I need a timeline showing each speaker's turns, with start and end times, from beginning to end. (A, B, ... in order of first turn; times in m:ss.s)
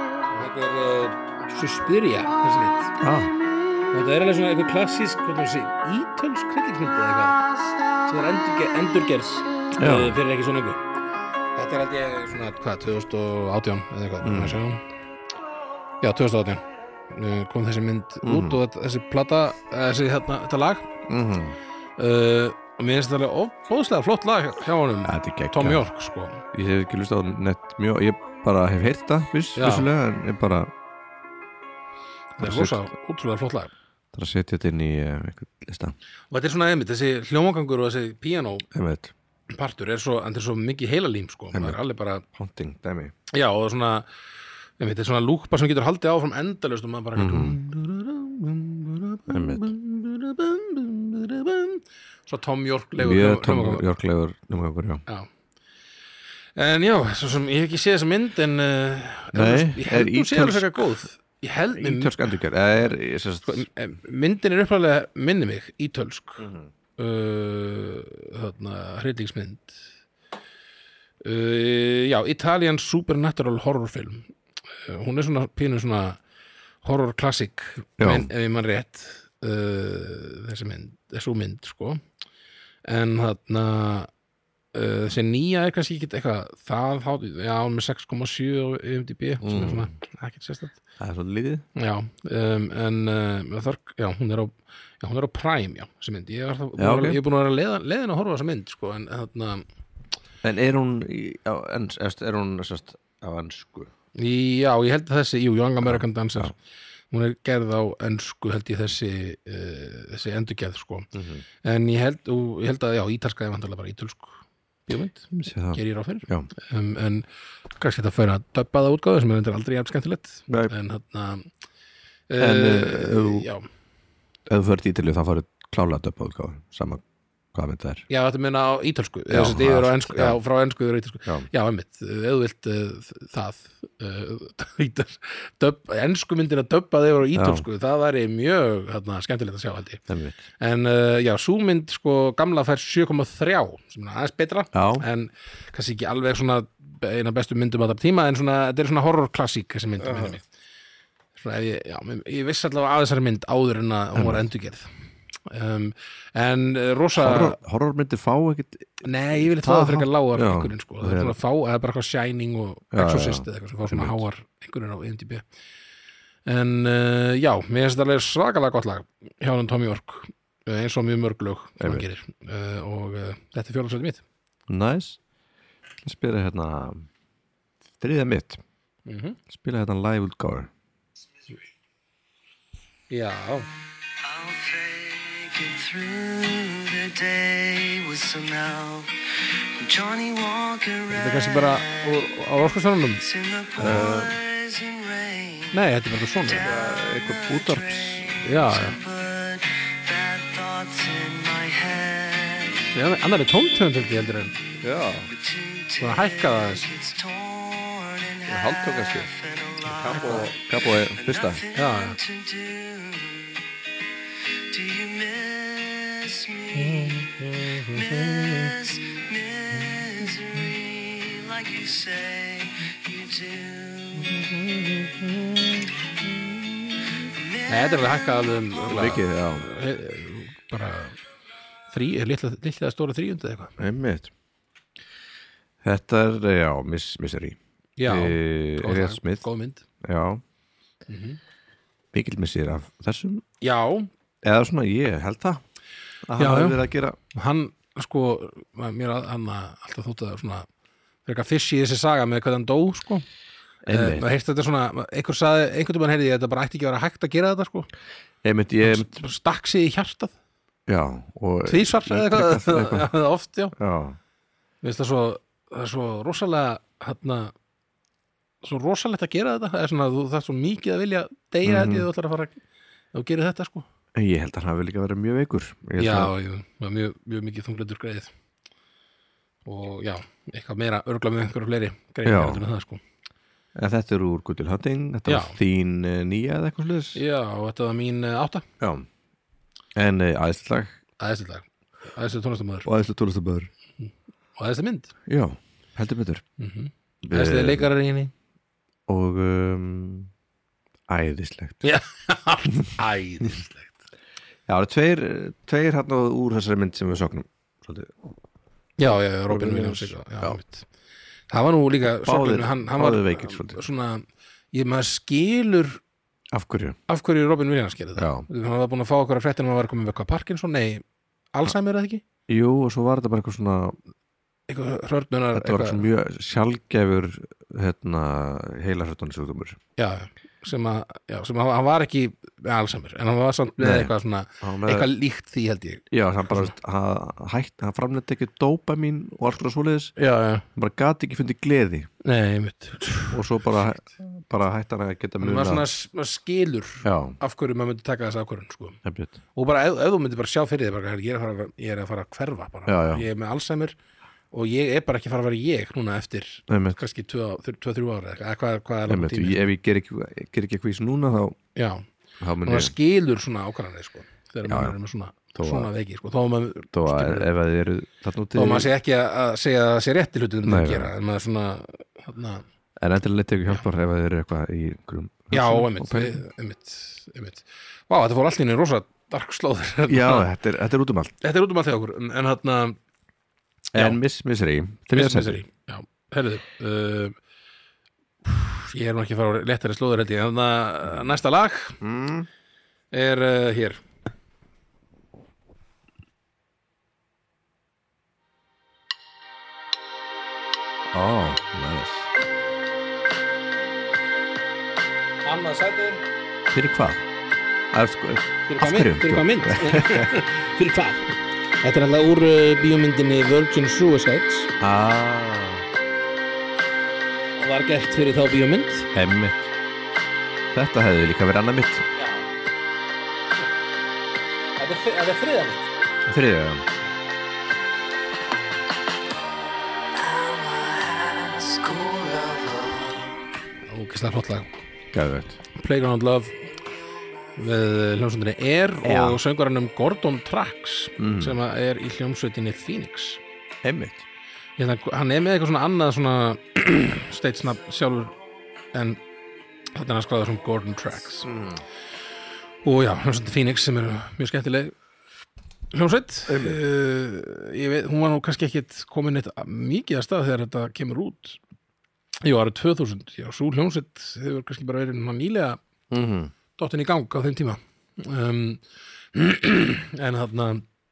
0:00.3-0:02.9 A
0:03.0-0:03.4 B
0:03.9-0:07.4 A
0:08.1-0:10.8 A
0:09.8-0:10.2 B
0:11.6-0:14.8 A
0:14.2-0:14.6 B
0:16.0-0:20.9 A
0:18.2-0:18.6 B
0:21.1-0:21.6 B
0:22.0-0:26.4 A
0:25.0-0:25.8 B
0:26.5-0:30.7 B
0:29.6-0:29.9 A
0:32.4-0:33.7 A
0:32.4-0:32.8 B
0:34.1-0:36.0 B
0:36.3-0:38.7 A
0:38.7-0:39.1 B
0:39.5-0:42.2 A
0:41.5-0:41.8 B
0:42.3-0:43.1 B
0:43.3-0:44.1 A
0:44.8-0:53.8 A
0:47.2-0:47.6 B
0:49.3-0:49.7 B
0:53.0-0:55.0 B
0:56.6-1:02.4 A
0:59.3-1:00.9 B
1:01.8-1:03.7 B
1:03.4-1:09.8 A
1:06.4-1:06.7 B
1:11.2-1:14.3 A
1:14.9-1:16.2 A
1:16.8-1:22.0 A
1:18.0-1:18.3 B
1:22.9-1:24.1 A
1:24.7-1:30.8 A
1:29.4-1:29.9 B
1:31.0-1:31.6 B
1:31.8-1:39.6 A
1:36.8-1:37.2 B
1:40.4-1:43.9 B
1:44.2-1:46.6 A
1:45.8-1:46.5 B
1:47.1-1:51.1 A
1:51.1-1:51.4 B
1:51.6-1:57.3 A
1:55.3-1:56.5 B
1:57.8-2:01.5 A
2:02.3-2:03.7 A
2:02.4-2:03.5 B
2:04.5-2:07.0 B
2:07.5-2:08.0 B
2:08.1-2:20.0 A
2:09.3-2:10.4 B
2:17.3-2:17.6 B
2:20.1-2:20.4 B
2:20.6-2:30.4 A
2:24.7-2:25.0 B
2:30.0-2:30.4 B
2:31.4-2:34.9 A
2:34.2-2:34.4 B
2:35.5-2:37.6 A
2:37.2-2:41.4 B
2:39.0-2:45.4 A
2:42.9-2:44.2 B
2:46.5-2:54.2 A
2:51.8-2:52.0 B
2:54.7-2:55.2 B
2:56.0-2:57.1 B
2:58.0-2:58.6 B
2:59.1-2:59.4 A
2:59.5-3:00.7 B
3:03.1-3:03.7 A
3:04.2-3:09.2 C
3:09.8-3:12.3 C
3:11.1-3:13.2 A
3:13.2-3:15.8 C
3:13.8-3:14.4 B
3:15.7-3:16.7 A
3:16.4-3:22.9 C
3:16.5-3:18.3 B
3:18.4-3:19.0 A
3:22.9-3:24.6 A
3:24.8-3:25.3 B
3:25.3-3:33.6 C
3:26.0-3:26.9 A
3:28.5-3:29.3 B
3:29.8-3:31.6 B
3:30.1-3:30.5 A
3:31.8-3:32.2 A
3:34.7-3:45.1 C
3:36.8-3:38.4 A
3:47.2-3:49.1 C
3:47.7-3:51.2 A
3:48.9-3:49.7 B
3:51.9-3:53.8 A
3:53.8-3:54.3 B
3:55.8-3:59.4 B
3:58.0-3:59.8 A
4:00.0-4:00.4 B
4:01.1-4:01.4 A
4:02.1-4:03.4 B
4:03.6-4:04.1 A
4:04.4-4:05.6 B
4:06.2-4:07.2 B
4:06.4-4:10.7 A
4:11.2-4:13.2 A
4:13.8-4:14.3 B
4:13.9-4:17.9 A
4:18.4-4:19.1 B
4:18.8-4:20.3 A
4:20.9-4:23.1 B
4:21.7-4:23.8 A
4:23.8-4:24.2 B
4:24.8-4:27.5 A
4:28.6-4:32.6 A
4:31.6-4:32.1 B
4:33.1-4:33.9 A
4:34.2-4:36.3 B
4:36.0-4:38.3 A
4:39.6-4:43.0 A
4:42.2-4:42.6 B
4:43.8-4:47.2 B
4:45.3-4:45.6 A
4:47.2-4:48.7 A
4:48.8-4:49.1 B
4:50.0-4:50.9 B
4:51.2-4:52.9 A
4:52.8-4:53.7 B
4:54.6-4:55.1 A
4:55.3-4:56.4 B
4:56.6-4:58.3 A
4:57.2-4:57.9 B
4:59.1-5:00.3 B
5:01.1-5:01.8 B
5:01.8-5:04.0 A
5:02.7-5:02.9 B
5:04.7-5:08.2 B
5:09.0-5:10.9 A
5:09.5-5:10.6 B
5:11.5-5:16.0 A
5:12.1-5:13.8 B
5:16.5-5:17.0 B
5:17.1-5:22.2 A
5:18.2-5:18.5 B
5:22.5-5:24.0 B
5:24.7-5:26.0 A
5:25.5-5:29.8 B
5:30.0-5:36.7 A
5:33.8-5:35.1 B
5:36.1-5:40.1 B
5:40.2-5:40.7 A
5:40.8-5:42.1 B
5:42.2-5:43.4 A
5:43.3-5:45.9 B
5:45.4-5:49.0 A
5:47.0-5:47.4 B
5:49.0-5:49.4 B
5:49.6-5:54.0 A
5:52.9-5:53.3 B
5:54.5-5:59.7 A
5:56.7-5:57.0 B
5:59.1-6:01.6 B
6:01.8-6:02.0 A
6:02.4-6:02.9 B
6:02.6-6:07.5 A
6:04.7-6:05.0 B
6:05.6-6:05.9 B
6:06.9-6:08.9 B
6:08.6-6:12.6 A
6:10.7-6:11.1 B
6:13.0-6:16.4 B
6:15.5-6:20.5 A
6:20.1-6:21.4 B
6:21.4-6:23.0 A
6:23.9-6:24.2 A
6:23.9-6:25.6 B
6:25.1-6:27.4 A
6:28.4-6:32.0 A
6:32.0-6:32.5 B
6:33.1-6:34.0 A
6:41.1-6:42.3 B
6:45.4-6:46.2 A
6:46.7-6:47.2 B
6:47.9-6:50.5 B
6:48.7-6:54.7 A
6:54.8-6:55.8 B
6:57.6-6:59.1 A
6:59.1-6:59.7 B
7:00.7-7:02.0 B
7:02.2-7:02.5 A
7:04.8-7:05.9 A
7:06.3-7:06.8 B
7:10.2-7:13.4 C
7:13.9-7:14.7 A
7:15.1-7:15.6 B
7:15.7-7:16.7 A
7:17.6-7:23.4 A
7:19.0-7:19.4 B
7:21.2-7:21.6 B
7:23.8-7:24.2 B
7:24.8-7:28.4 A
7:28.9-7:29.2 A
7:30.0-7:31.5 A
7:31.4-7:31.8 B
7:32.8-7:35.0 A
7:35.9-7:41.6 A
7:36.5-7:36.8 B
7:42.4-7:45.8 A
7:46.1-7:46.5 B
7:46.8-7:48.8 A
7:49.3-7:50.9 A